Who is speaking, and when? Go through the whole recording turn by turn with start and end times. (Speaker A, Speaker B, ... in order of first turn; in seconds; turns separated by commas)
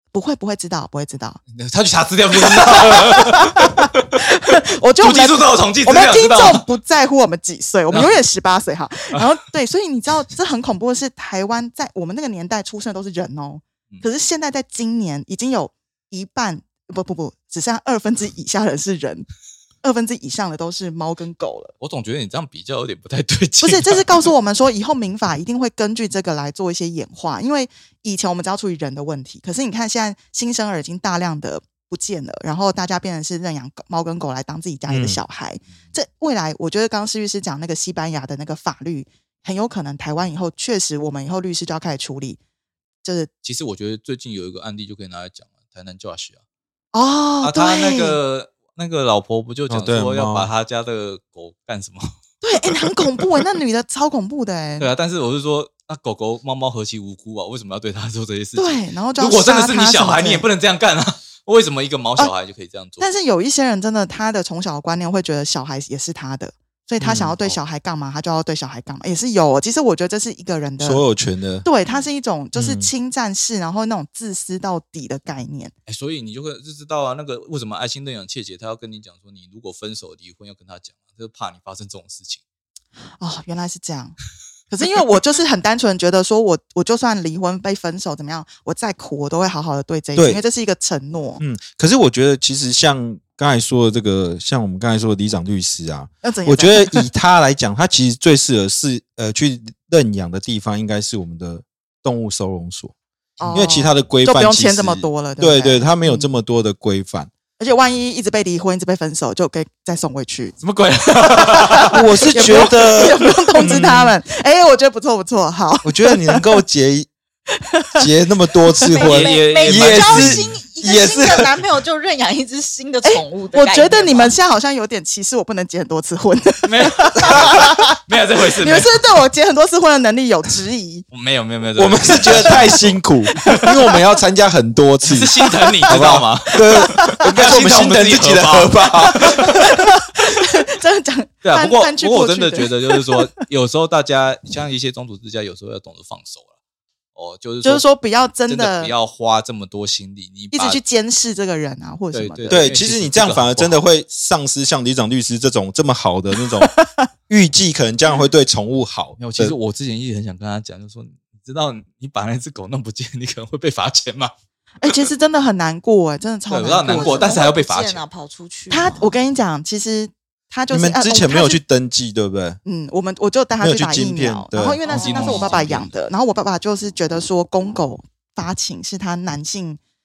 Speaker A: 0.1-1.4, Speaker B: 1.5-4.0, Speaker A: 2.4-19.3, Speaker B: 5.0-6.7, Speaker A: 19.8-21.7, Speaker B: 21.8-24.3, Speaker A: 23.6-42.4, Speaker C: 34.9-35.2, Speaker A: 43.0-43.3, Speaker B: 43.4-46.4, Speaker A: 46.9-48.2, Speaker B: 47.4-52.1, Speaker C: 49.7-50.5, Speaker A: 52.4-54.9, Speaker B: 52.7-53.2, Speaker B: 54.8-63.1, Speaker A: 58.5-60.5, Speaker A: 63.0-71.0, Speaker C: 67.0-67.4, Speaker C: 70.8-71.7, Speaker A: 71.6-75.7, Speaker C: 72.5-72.9, Speaker B: 75.9-82.4, Speaker A: 83.2-84.2, Speaker A: 84.7-91.4, Speaker C: 90.2-90.4, Speaker C: 91.4-102.9, Speaker A: 96.2-97.0, Speaker A: 103.4-106.3, Speaker C: 103.5-107.3, Speaker A: 107.6-110.5, Speaker B: 110.6-112.6, Speaker A: 111.4-116.5, Speaker C: 111.9-114.2, Speaker C: 115.8-117.1, Speaker A: 117.6-118.0, Speaker C: 118.0-121.6, Speaker D: 118.9-124.3, Speaker B: 119.0-120.5, Speaker A: 123.0-128.0, Speaker B: 126.6-129.0, Speaker A: 128.6-131.0, Speaker B: 131.1-133.6, Speaker C: 131.8-139.6, Speaker B: 135.0-139.5, Speaker A: 139.2-143.2, Speaker B: 141.4-146.5, Speaker B: 147.1-147.8, Speaker A: 147.6-148.9, Speaker B: 148.5-150.8, Speaker A: 150.5-152.7, Speaker B: 152.1-153.8, Speaker C: 152.5-156.7, Speaker A: 156.7-157.1, Speaker C: 157.3-159.5, Speaker B: 159.2-164.3, Speaker A: 164.8-167.4, Speaker B: 166.5-168.0, Speaker D: 166.8-169.1, Speaker A: 168.7-171.6, Speaker C: 170.7-172.6, Speaker A: 172.6-179.8, Speaker C: 173.6-174.8, Speaker B: 174.9-175.9, Speaker D: 174.9-175.6